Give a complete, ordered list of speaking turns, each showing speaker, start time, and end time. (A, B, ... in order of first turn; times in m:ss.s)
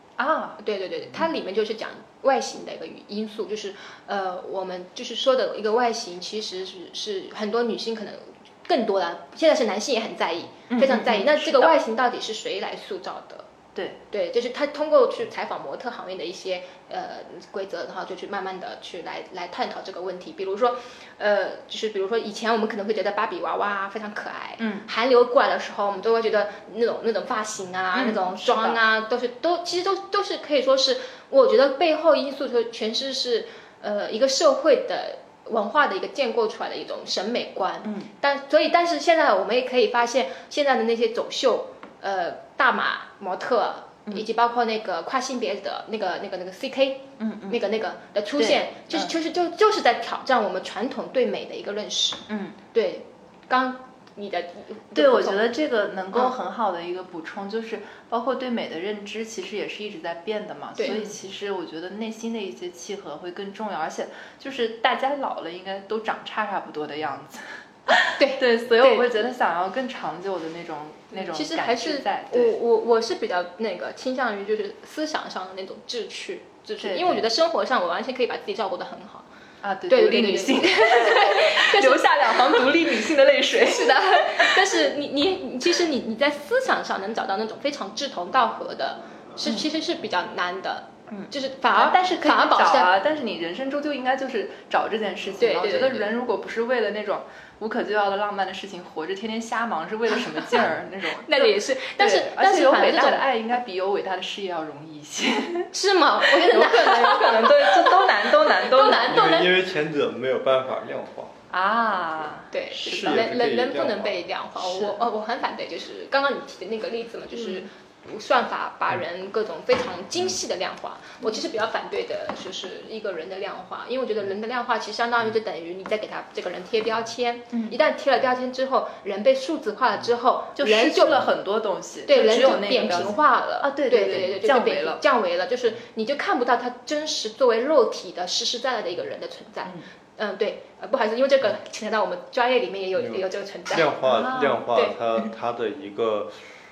0:00.2-0:00.6 A
0:00.6-0:13.4 B
0:10.7-0:11.7 A
0:13.7-0:14.0 A
0:14.1-0:55.5 B
0:24.6-0:24.9 A
0:27.9-0:28.8 A
0:37.8-0:38.1 A
0:47.2-0:47.6 A
0:48.4-0:49.1 A
0:52.3-0:52.6 A
0:55.0-1:12.5 A
1:00.8-1:01.1 B
1:07.9-1:09.1 B
1:11.1-1:19.3 B
1:16.8-1:17.3 A
1:19.6-1:24.6 A
1:19.9-1:22.7 B
1:23.7-1:32.9 B
1:31.1-1:45.7 A
1:35.4-1:36.1 B
1:41.2-1:43.3 B
1:45.7-1:49.6 B
1:46.2-1:49.4 A
1:49.0-1:51.4 C
1:51.5-1:53.2 A
1:52.5-2:11.3 B
1:52.7-1:54.2 C
1:54.6-1:55.0 A
1:57.3-1:57.7 A
2:10.6-2:15.0 A
2:12.1-2:25.0 B
2:23.0-2:26.4 C
2:24.0-2:24.7 A